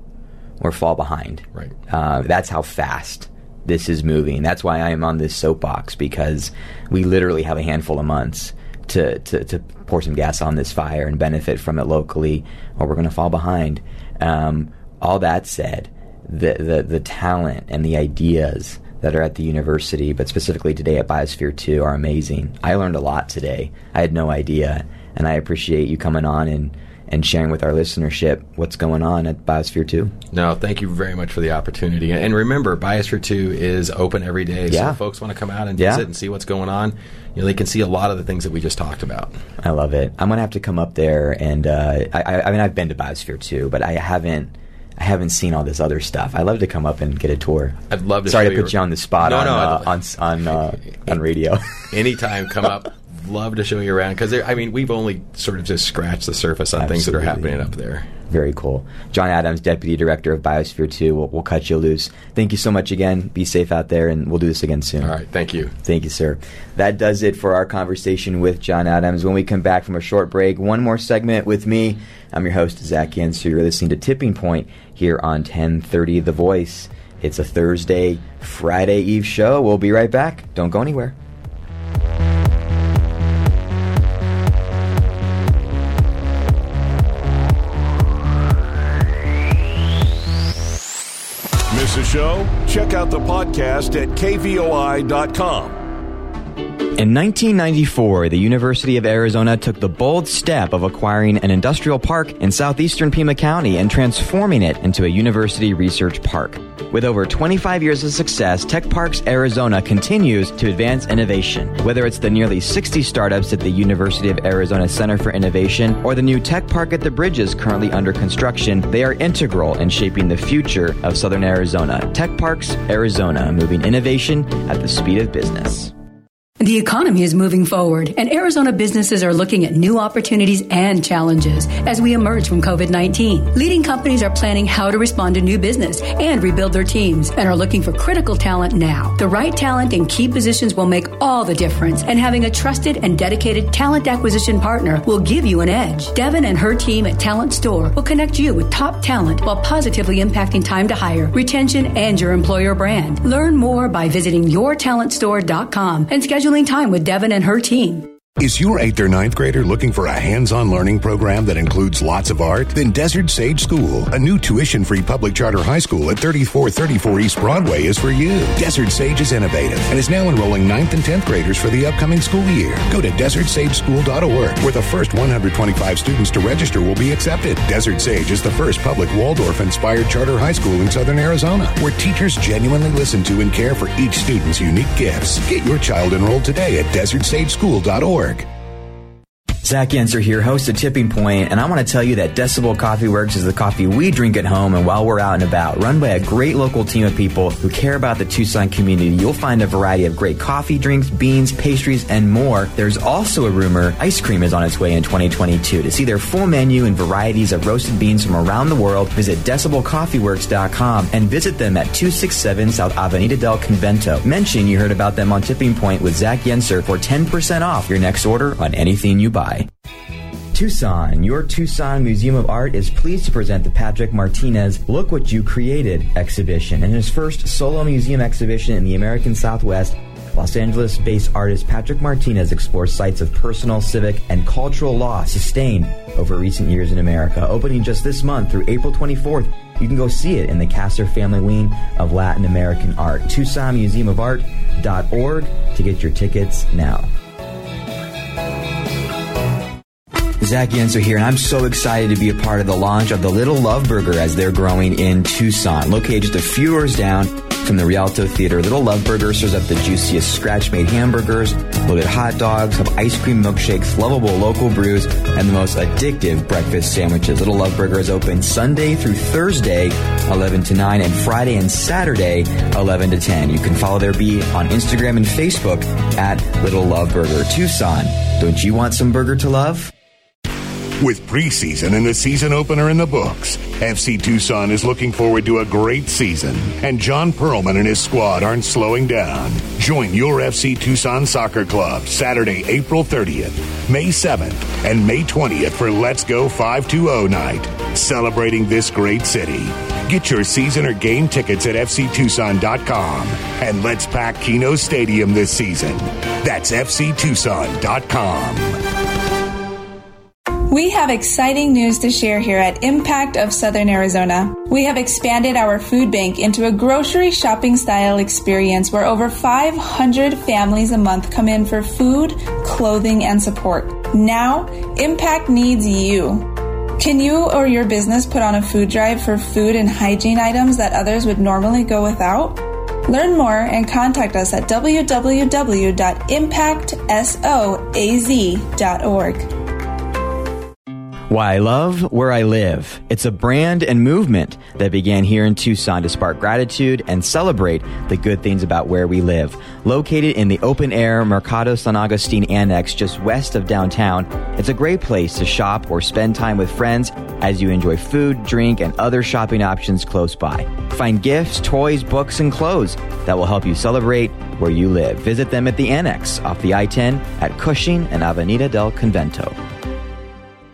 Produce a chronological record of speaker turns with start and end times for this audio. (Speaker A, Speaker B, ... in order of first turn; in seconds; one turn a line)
Speaker A: 0.6-30.1
Speaker B: 30.3-39.4
Speaker A: 34.7-35.0
Speaker A: 35.8-36.1
Speaker A: 39.6-51.9
Speaker B: 47.9-50.0
Speaker B: 51.9-58.1
Speaker A: 56.8-57.7
Speaker A: 58.3-65.2
Speaker B: 65.0-65.7
Speaker A: 65.8-81.2
Speaker C: 91.7-95.8
Speaker A: 97.0-125.9
Speaker D: 126.6-158.1
Speaker E: 158.4-188.5
Speaker A: 189.6-219.7
Speaker A: 220.5-247.1
Speaker A: 250.4-279.9
Speaker E: 281.0-308.8
Speaker F: 310.7-339.5
Speaker A: 341.3-369.6